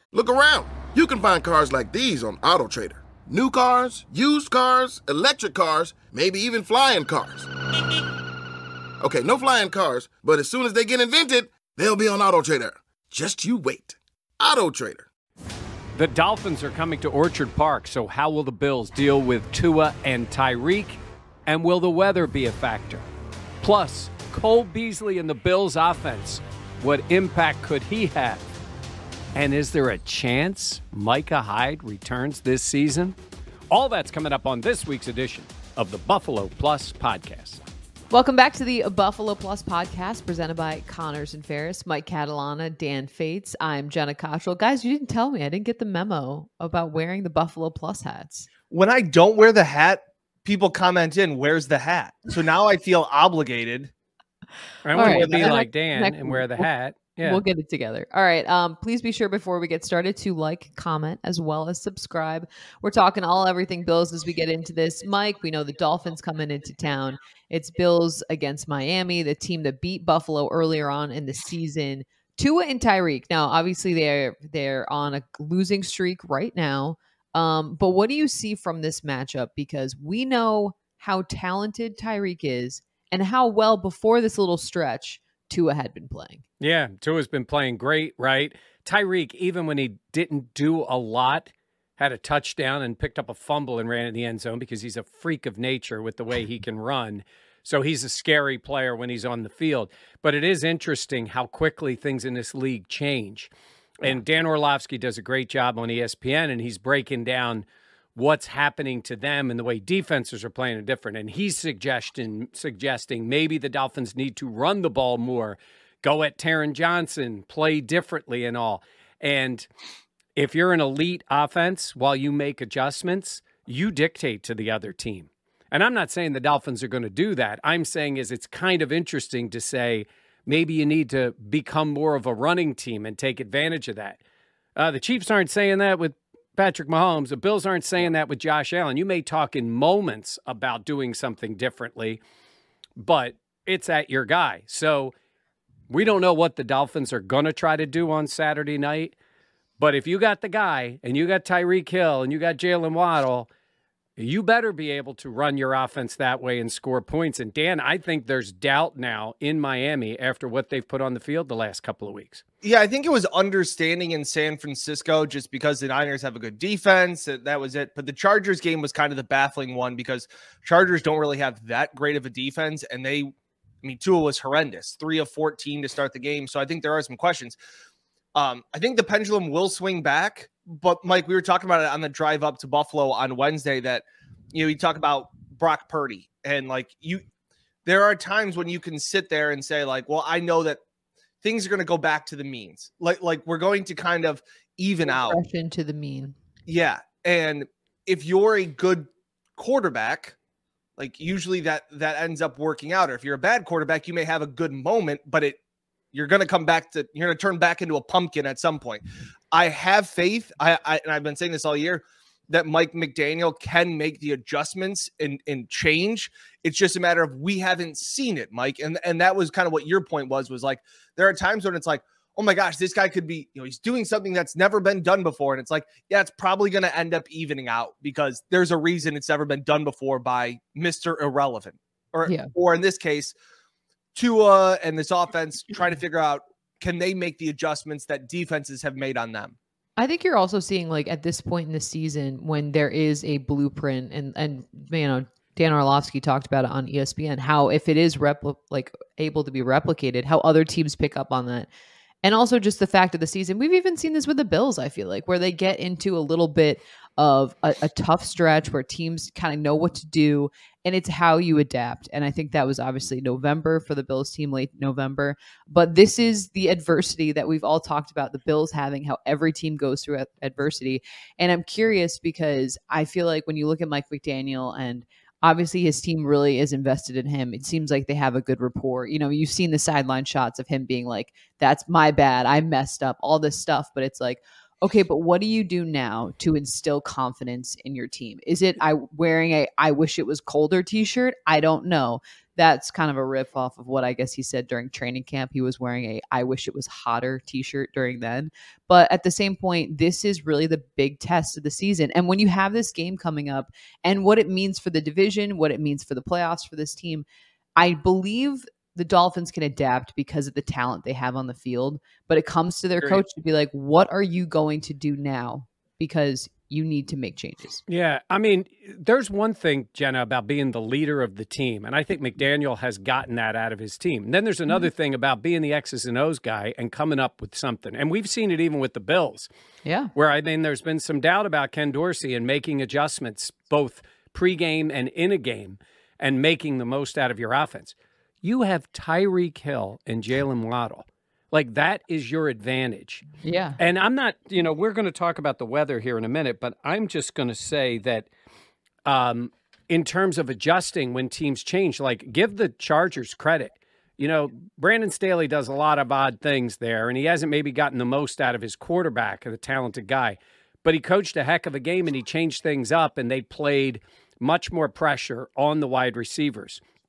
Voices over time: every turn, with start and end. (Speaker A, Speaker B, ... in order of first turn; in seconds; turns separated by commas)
Speaker A: 0.1-7.5, Speaker A: 9.0-15.1, Speaker B: 15.9-23.1, Speaker B: 23.6-28.4, Speaker B: 29.3-33.1, Speaker B: 33.7-37.6, Speaker C: 38.1-48.5, Speaker D: 48.7-53.9, Speaker B: 54.8-57.4, Speaker C: 54.9-56.7, Speaker D: 54.9-55.6, Speaker C: 57.2-86.4, Speaker B: 86.6-119.7, Speaker B: 120.3-134.2, Speaker B: 134.8-142.2, Speaker B: 143.0-145.1, Speaker B: 145.9-149.1, Speaker B: 149.8-153.5, Speaker B: 154.2-162.4, Speaker D: 162.6-177.6, Speaker D: 178.3-187.2, Speaker D: 187.8-190.8, Speaker D: 191.4-195.4, Speaker C: 195.1-196.3, Speaker D: 196.7-200.3, Speaker D: 201.0-205.6, Speaker D: 206.1-233.3, Speaker D: 234.1-239.6, Speaker C: 240.0-251.7, Speaker C: 252.2-317.8, Speaker B: 317.9-329.5, Speaker C: 329.8-330.1, Speaker B: 330.1-343.2, Speaker C: 343.4-343.8, Speaker B: 343.8-348.3, Speaker B: 349.0-366.8